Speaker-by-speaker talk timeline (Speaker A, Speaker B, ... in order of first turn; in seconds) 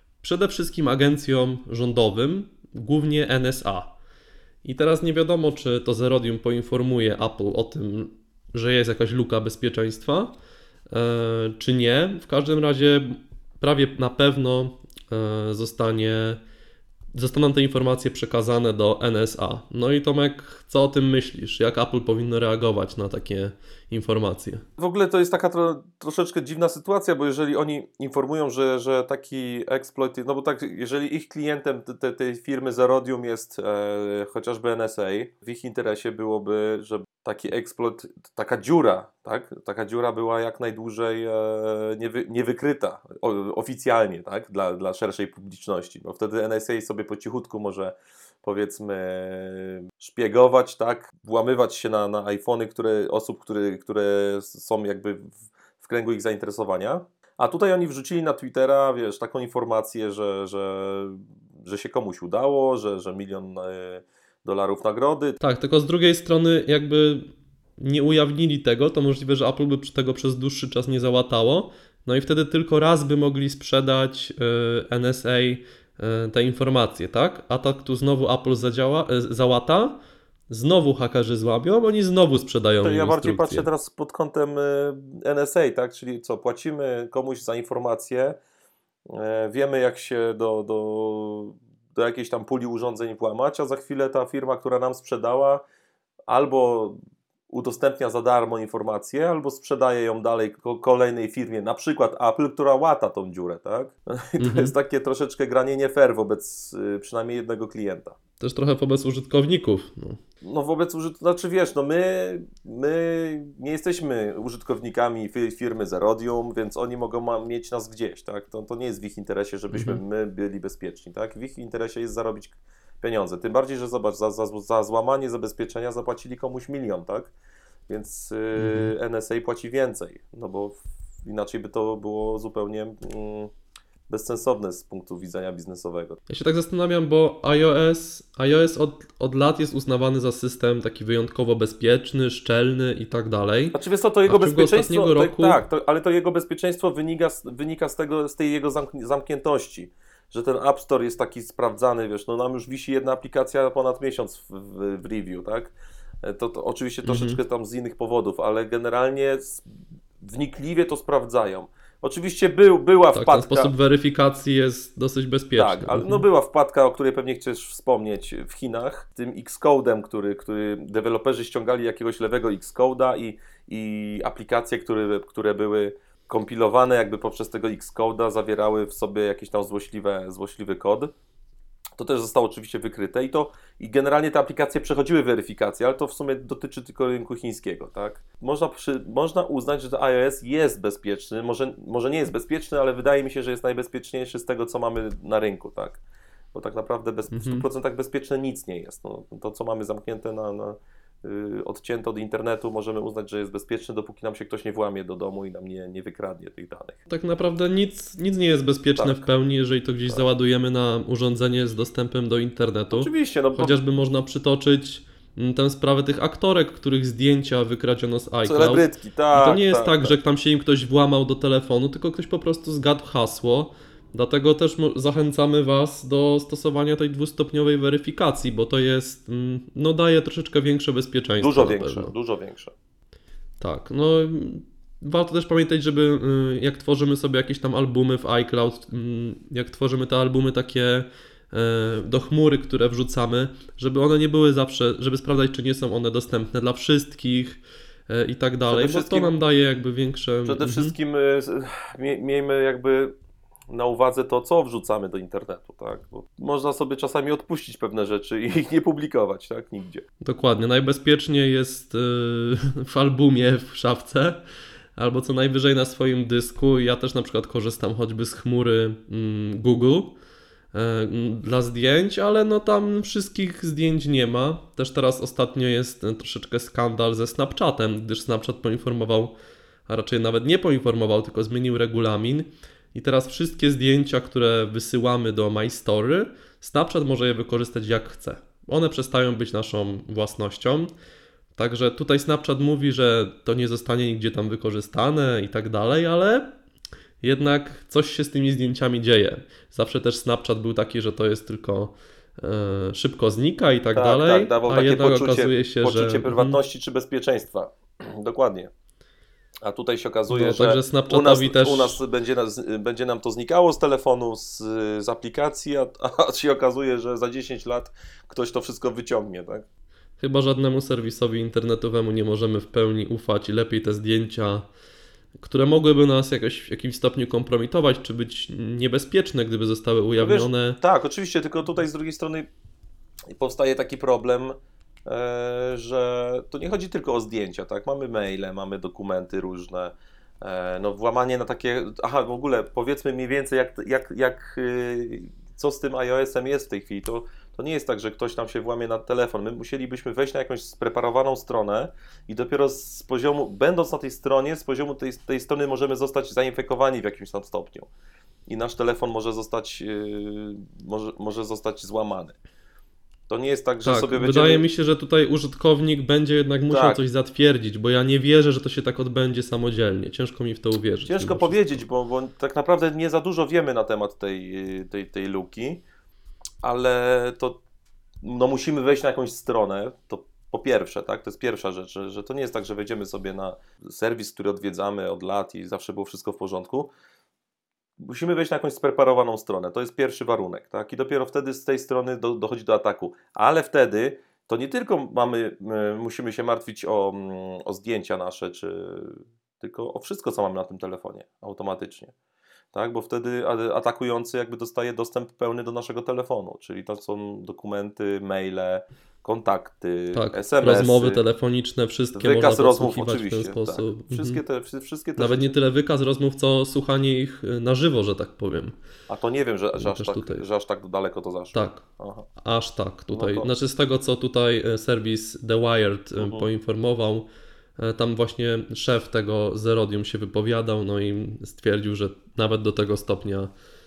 Speaker A: 0.2-3.9, 4.6-10.3, 10.9-16.4, 17.1-24.6, 65.4-80.0, 80.5-83.7, 104.4-104.7, 108.4-110.2, 119.7-120.0, 128.6-128.9, 136.3-145.6, 157.0-157.4, 163.1-166.2, 197.3-197.7, 207.1-232.1, 233.6-250.9, 260.2-264.4, 264.9-270.1, 270.7-279.3, 279.9-290.9, 291.5-296.5, 297.2-306.6, 310.3-312.0, 320.2-324.7, 325.4-330.8, 363.8-371.8, 410.1-414.4, 415.2-418.8, 419.8-420.4, 421.5-421.8, 422.4-427.3, 427.8-433.5
Speaker B: 24.8-65.4, 82.8-88.4, 89.1-95.6, 96.3-97.0, 97.5-108.1, 110.4-127.3, 127.9-133.5, 134.1-136.2, 143.7-159.7, 160.2-163.7, 165.6-181.1, 182.0-196.0, 196.5-207.0, 208.9-209.2, 212.9-213.8, 218.4-220.2, 231.4-232.7, 248.7-249.4, 250.4-253.1, 253.7-260.0, 303.9-308.7, 309.6-319.6, 330.2-332.5, 333.3-357.9, 358.5-362.4, 363.3-364.6, 366.7-367.0, 371.1-375.8, 376.6-377.6, 378.2-386.9, 388.0-402.1, 402.7-411.2, 412.1-415.5, 419.1-422.3, 423.1-423.5, 426.1-426.5